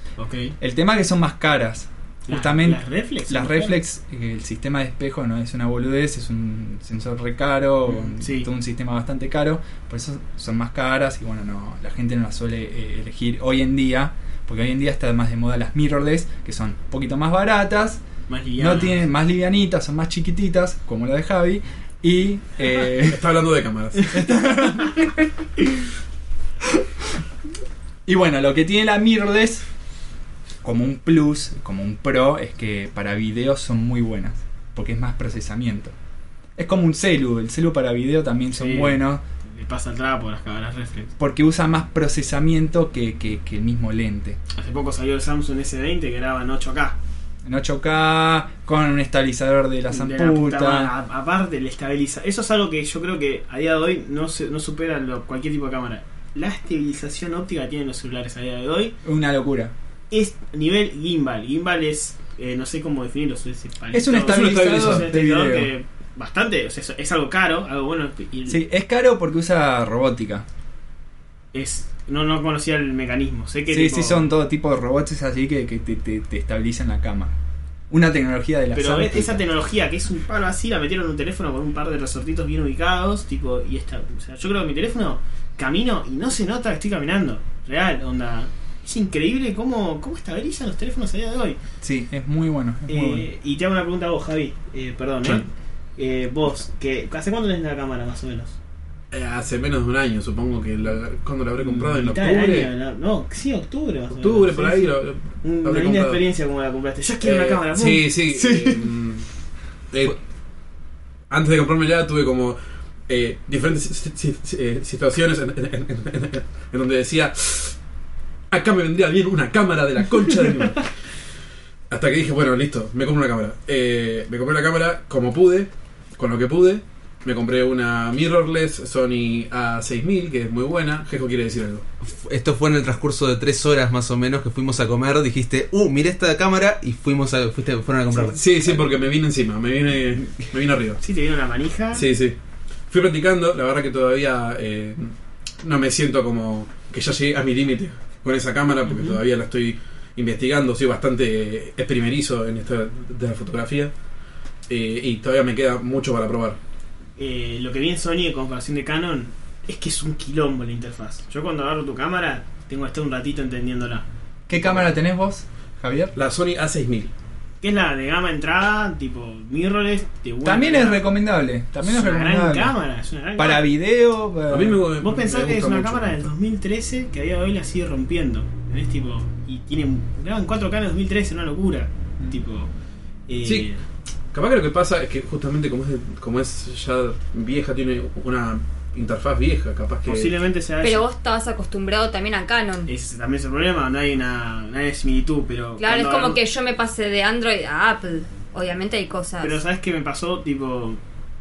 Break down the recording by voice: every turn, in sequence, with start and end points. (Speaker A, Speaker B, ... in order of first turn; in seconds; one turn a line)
Speaker A: 0.2-0.6
Speaker B: 0.6-18.0
Speaker A: 2.3-3.8
Speaker A: 7.9-8.5
Speaker A: 18.3-19.0
Speaker B: 18.6-23.2
Speaker C: 23.0-24.2
Speaker B: 24.1-25.3
Speaker B: 28.1-29.6
Speaker B: 30.6-35.9
Speaker B: 36.6-39.2
Speaker A: 38.5-41.1
Speaker B: 41.2-44.4
Speaker A: 44.5-47.0
Speaker B: 47.5-50.9
Speaker A: 49.9-59.0
Speaker B: 59.0-59.7
Speaker A: 60.1-68.6
Speaker B: 63.9-65.7
Speaker C: 64.2-65.1
Speaker B: 68.5-70.5
Speaker A: 71.5-74.3
Speaker B: 73.7-77.3
Speaker B: 77.9-79.4
Speaker A: 78.7-91.6
Speaker B: 91.8-93.3
Speaker A: 92.9-95.5
Speaker A: 96.0-98.6
Speaker C: 99.1-102.7
Speaker A: 101.6-108.1
Speaker C: 104.1-106.2
Speaker C: 107.2-109.3
Speaker B: 108.3-108.8
Speaker C: 109.9-110.2
Speaker C: 111.3-117.8
Speaker C: 118.5-120.8
Speaker C: 121.9-131.8
Speaker D: 132.0-138.8
Speaker C: 138.2-141.0
Speaker A: 141.0-142.1
Speaker C: 141.9-142.4
Speaker C: 142.9-153.9
Speaker C: 154.7-156.6
Speaker A: 157.2-164.8
Speaker B: 164.5-166.1
Speaker C: 166.2-167.1
Speaker A: 167.6-171.1
Speaker B: 170.4-172.8
Speaker A: 171.8-173.7
Speaker B: 173.4-174.8
Speaker C: 174.5-176.3
Speaker A: 175.0-182.7
Speaker A: 183.3-183.8
Speaker C: 183.4-183.7
Speaker C: 184.3-190.4
Speaker A: 190.1-191.0
Speaker E: 190.8-192.9
Speaker A: 192.9-196.4
Speaker E: 195.8-199.6
Speaker A: 199.4-201.0